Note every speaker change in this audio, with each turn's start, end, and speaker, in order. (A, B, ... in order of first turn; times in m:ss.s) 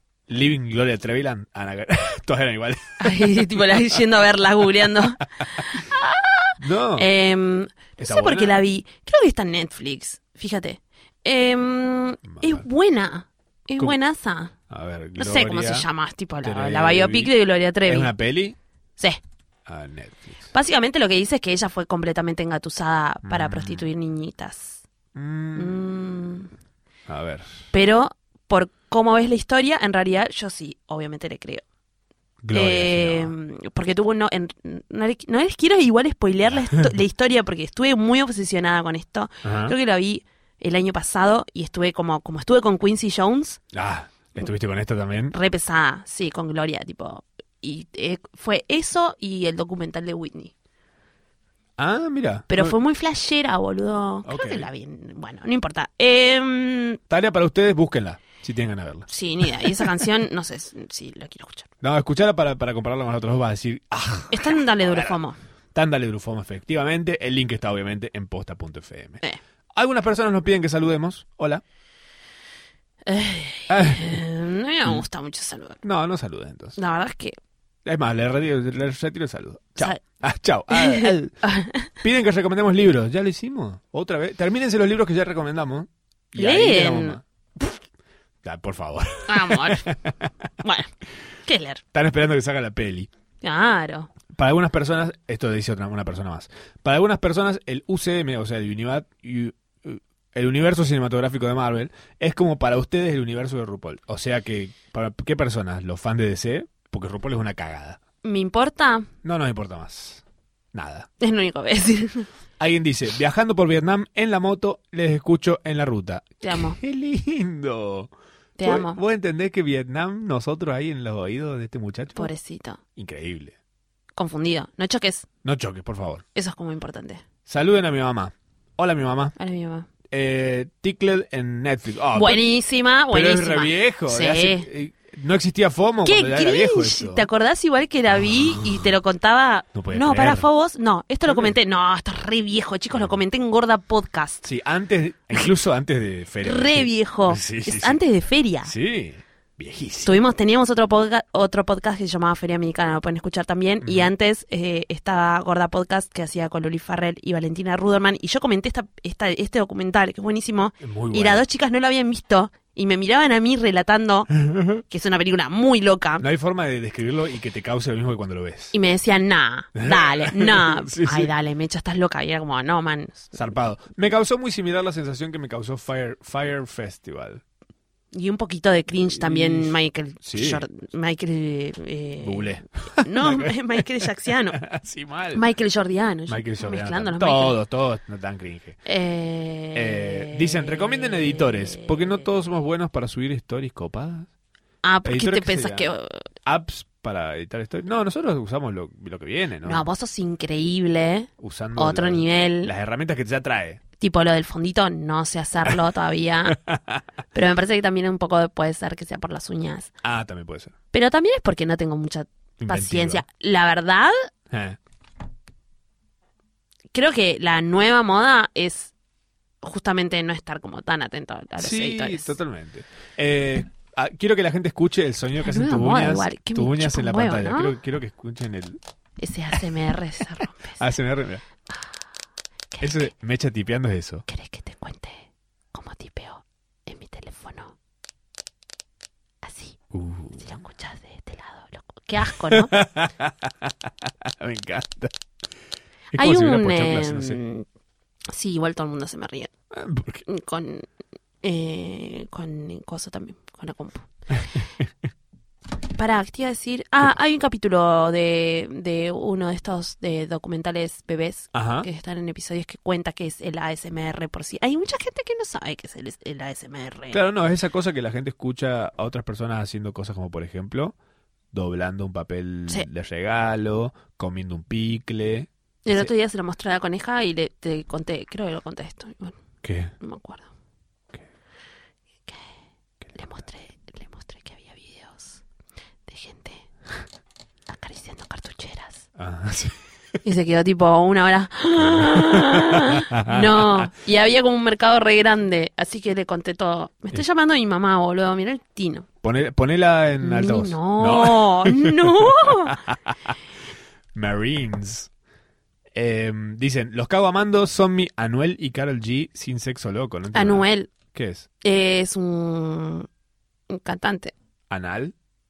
0:00.3-0:03.8 A
0:03.0-0:14.5 B
0:06.6-0:07.1 A
0:08.0-0:08.6 A
0:12.3-0:12.7 A
0:14.7-0:15.9 A
0:15.2-0:18.1 B
0:16.4-0:17.3 A
0:17.8-0:18.6 A
0:19.7-0:20.4 A
0:20.5-0:24.8 B
0:23.2-0:23.8 A
0:25.2-0:25.9 A
0:25.6-0:26.5 B
0:27.1-0:27.6 A
0:27.7-0:31.6 B
0:32.4-0:33.3 A
0:32.5-0:43.6 B
0:36.6-0:36.9 A
0:39.4-0:39.7 A
0:43.7-0:45.3 A
0:45.3-0:50.5 B
0:51.8-0:52.8 A
0:52.5-0:57.0 B
0:54.2-0:54.7 A
0:57.1-0:59.9 A
0:59.1-1:01.7 B
1:01.8-1:05.2 A
1:04.3-1:05.4 B
1:05.7-1:09.2 A
1:09.7-1:11.6 A
1:13.1-1:15.8 B
1:13.7-1:14.2 A
1:15.8-1:16.8 A
1:16.8-1:17.4 B
1:17.8-1:21.4 A
1:20.7-1:21.9 B
1:22.0-1:27.8 A
1:26.4-1:27.2 B
1:28.4-1:30.3 A
1:29.3-1:29.9 B
1:30.6-1:30.9 B
1:31.5-1:31.8 B
1:31.9-1:33.1 A
1:33.4-1:34.1 B
1:34.3-1:48.0 A
1:48.2-1:49.1 B
1:49.2-1:50.2 A
1:50.7-1:51.1 A
1:51.2-1:52.3 B
1:52.6-1:58.1 A
1:56.4-1:56.8 B
1:58.6-1:59.0 B
1:58.6-2:02.3 A
2:02.2-2:02.8 B
2:03.0-2:03.6 A
2:04.2-2:05.3 B
2:05.4-2:06.2 A
2:06.4-2:07.2 B
2:07.5-2:09.3 A
2:09.4-2:09.9 B
2:10.1-2:12.4 A
2:12.1-2:14.7 B
2:13.1-2:17.3 A
2:16.0-2:24.4 B
2:18.3-2:18.8 A
2:19.7-2:20.5 A
2:21.3-2:21.5 A
2:24.4-2:28.0 A
2:26.4-2:28.7 B
2:28.7-2:30.2 A
2:30.0-2:44.3 B
2:33.8-2:34.1 A
2:40.8-2:41.4 A
2:44.3-2:44.8 A
2:44.8-2:46.2 B
2:46.2-2:48.8 A
2:48.7-2:53.3 B
2:49.8-2:51.3 A
2:53.3-2:57.4 A
2:58.1-3:04.6 B
2:59.1-3:00.6 A
3:02.2-3:03.5 A
3:04.6-3:05.4 A
3:05.4-3:07.6 B
3:06.3-3:08.8 A
3:08.8-3:12.3 B
3:09.7-3:14.3 A
3:14.8-3:16.2 B
3:15.0-3:15.9 A
3:16.4-3:19.8 A
3:19.6-3:22.7 B
3:21.4-3:23.8 A
3:24.0-3:26.6 B
3:26.5-3:27.0 A
3:27.3-3:29.9 B
3:30.0-3:30.8 A
3:30.9-3:34.3 B
3:32.6-3:33.2 A
3:34.5-3:34.8 A
3:36.9-3:38.9 B
3:39.6-3:42.4 B
3:41.6-3:48.8 A
3:45.4-3:47.8 B
3:49.2-3:50.8 B
3:50.4-3:51.4 A
3:52.7-3:53.1 B
3:52.8-3:54.3 A
3:54.3-3:57.8 B
3:59.4-3:59.8 B
3:59.9-4:00.5 A
4:00.4-4:02.8 B
4:02.3-4:05.1 A
4:06.1-4:07.4 A
4:06.1-4:07.7 B
4:08.3-4:09.5 B
4:09.7-4:10.2 A
4:10.3-4:10.9 B
4:11.4-4:14.1 B
4:14.6-4:14.9 A
4:16.0-4:27.2 B
4:21.5-4:21.9 A
4:27.1-4:31.0 A
4:31.5-4:36.1 A
4:35.8-4:39.4 B
4:39.6-4:39.9 A
4:40.0-4:40.5 B
4:43.1-4:45.4 B
4:46.1-4:46.7 B
4:47.7-4:49.1 B
4:49.2-4:49.8 A
4:50.2-4:59.1 B
4:51.8-4:53.9 A
4:59.2-5:03.4 A
5:00.2-5:02.8 B
5:04.1-5:05.1 A
5:05.9-5:11.5 A
5:10.3-5:10.9 B
5:11.6-5:13.1 B
5:13.7-5:14.3 B
5:14.7-5:15.1 A